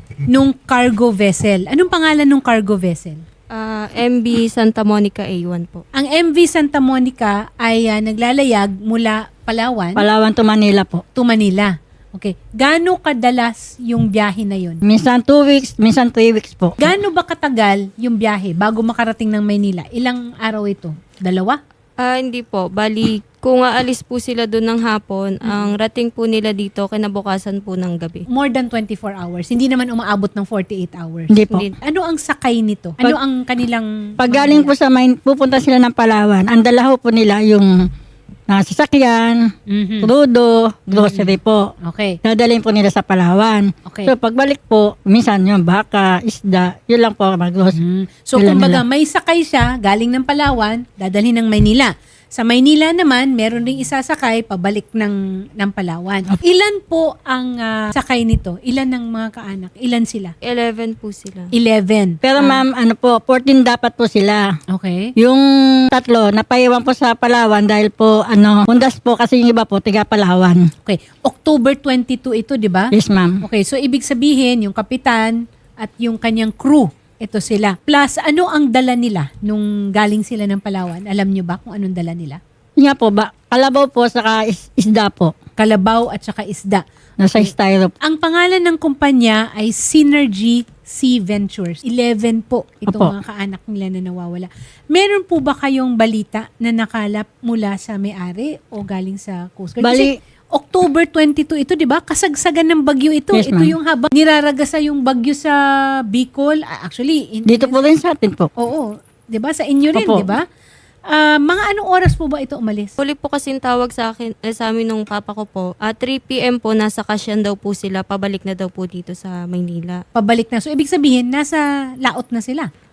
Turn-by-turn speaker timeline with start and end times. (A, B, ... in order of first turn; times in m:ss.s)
0:00.3-0:03.2 A
0:03.5-0:05.8 B
0:06.0-0:10.0 A
0:10.0-0:11.0 C
0:11.1-0:14.8 A
0:14.8-0:16.9 C
0:16.8-0:21.6 A
0:22.0-0:28.2 B
0:28.3-0:34.7 A
0:31.3-0:31.6 C
0:34.2-0:37.9 C
0:38.5-0:41.6 C
0:39.7-0:40.1 A
0:40.9-0:42.2 A
0:42.2-0:47.8 C
0:47.7-1:00.3 A
0:48.4-0:48.8 C
1:00.4-1:01.5 B
1:01.5-1:02.6 A
1:02.2-1:04.4 C
1:04.7-1:05.1 A
1:05.2-1:10.7 C
1:10.8-1:22.4 A
1:12.9-1:13.4 C
1:22.8-1:25.3 C
1:25.6-1:26.8 A
1:27.2-1:27.9 C
1:27.3-1:45.6 A
1:32.9-1:33.1 C
1:39.8-1:40.1 C
1:43.3-1:43.7 C
1:46.1-1:47.8 A
1:47.4-1:48.5 C
1:48.6-1:50.4 A
1:49.9-1:50.3 C
1:51.1-1:53.0 A
1:53.0-2:00.0 B
2:00.1-2:02.7 A